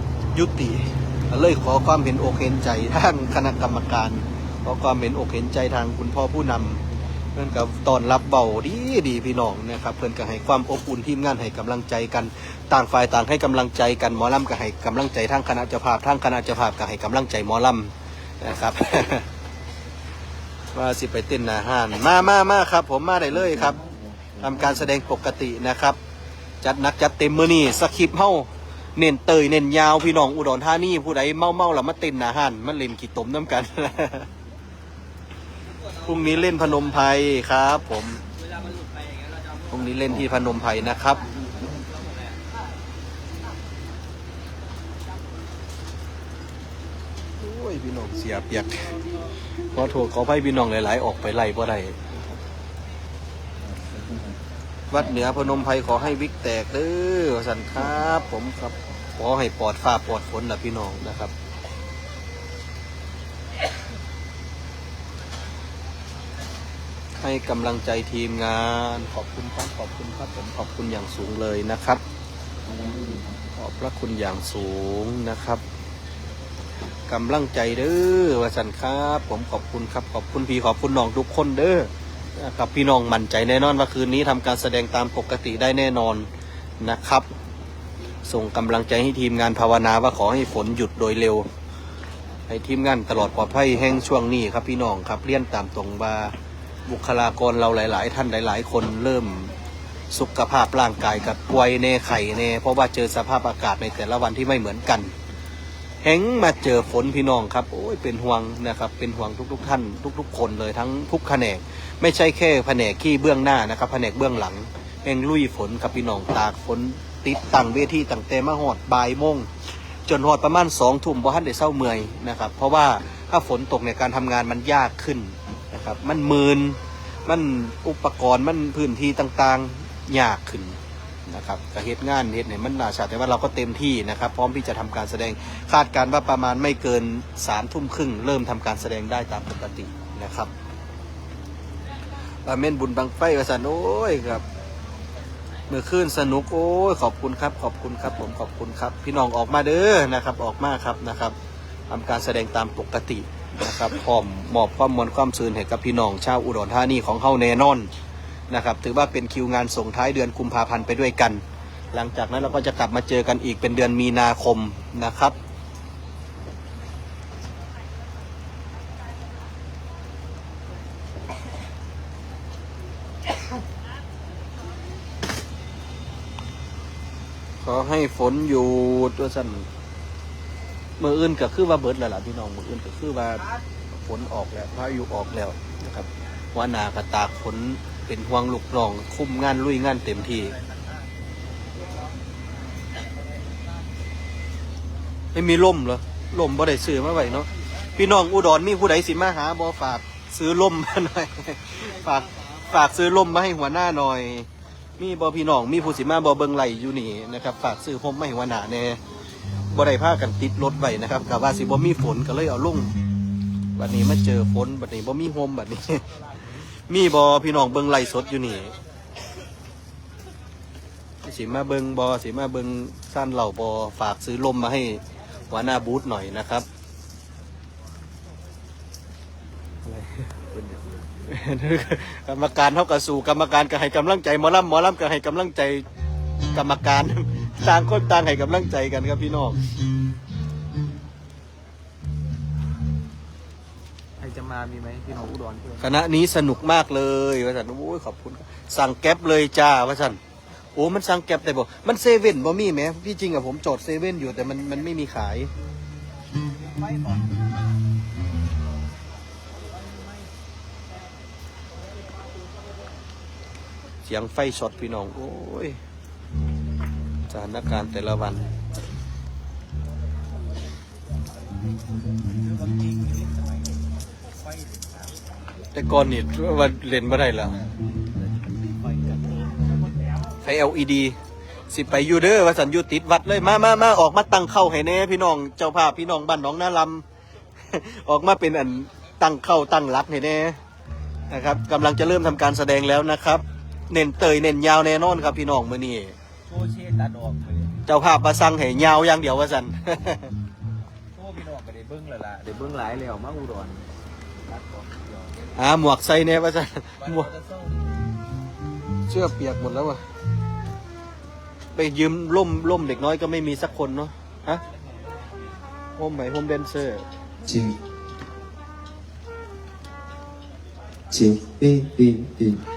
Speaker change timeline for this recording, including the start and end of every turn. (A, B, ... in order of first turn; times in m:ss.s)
0:00.3-0:06.8 A
0:07.3-0:19.3 A
0:20.7-0:23.8 A
0:23.3-0:24.9 B
0:24.4-0:26.0 A
0:26.6-0:34.3 A
0:36.0-0:38.2 A
0:39.7-0:41.2 A
0:47.4-0:48.9 A
0:49.7-0:52.4 A
0:53.6-0:54.4 B
0:54.9-1:01.3 A
1:07.2-1:12.0 A
1:12.6-1:13.4 B
1:13.6-1:15.6 A
1:17.1-1:26.2 A
1:26.8-1:27.2 A
1:28.2-1:31.4 A
1:32.5-1:36.3 A
1:36.8-1:39.5 A
1:40.1-1:45.1 A
1:46.0-1:59.5 A
2:00.0-2:20.5 A
2:22.4-2:24.4 A
2:25.7-2:31.3 A
2:31.9-2:37.9 A
2:38.5-2:41.4 A
2:41.9-2:45.3 A
2:57.6-2:59.7 A
3:01.0-3:10.5 A
3:15.3-3:29.0 A
3:29.7-3:32.9 A
3:33.7-3:36.0 A
3:36.9-3:38.8 A
3:41.2-3:46.6 A
3:49.8-3:50.3 A
3:50.5-3:51.2 C
3:51.3-3:55.8 A
3:56.5-3:59.6 A
4:04.2-4:05.9 C
4:05.8-4:10.2 A
4:10.7-4:15.5 A
4:16.8-4:17.3 C
4:24.0-4:25.8 A
4:27.3-4:28.5 A
4:32.2-4:35.7 C
4:35.7-4:37.6 A
4:37.5-4:39.6 C
4:40.4-4:41.2 A
4:41.7-4:47.0 A
4:47.7-4:50.6 A
4:51.3-4:56.2 A
4:56.4-4:57.8 C
4:57.8-5:00.3 A
5:01.1-5:05.5 C
5:05.5-5:07.3 A
5:07.0-5:07.9 C
5:09.1-5:10.0 A
5:11.7-5:14.6 A
5:14.7-5:15.5 C
5:16.0-5:17.0 A
5:17.4-5:17.7 B
5:21.1-5:22.6 B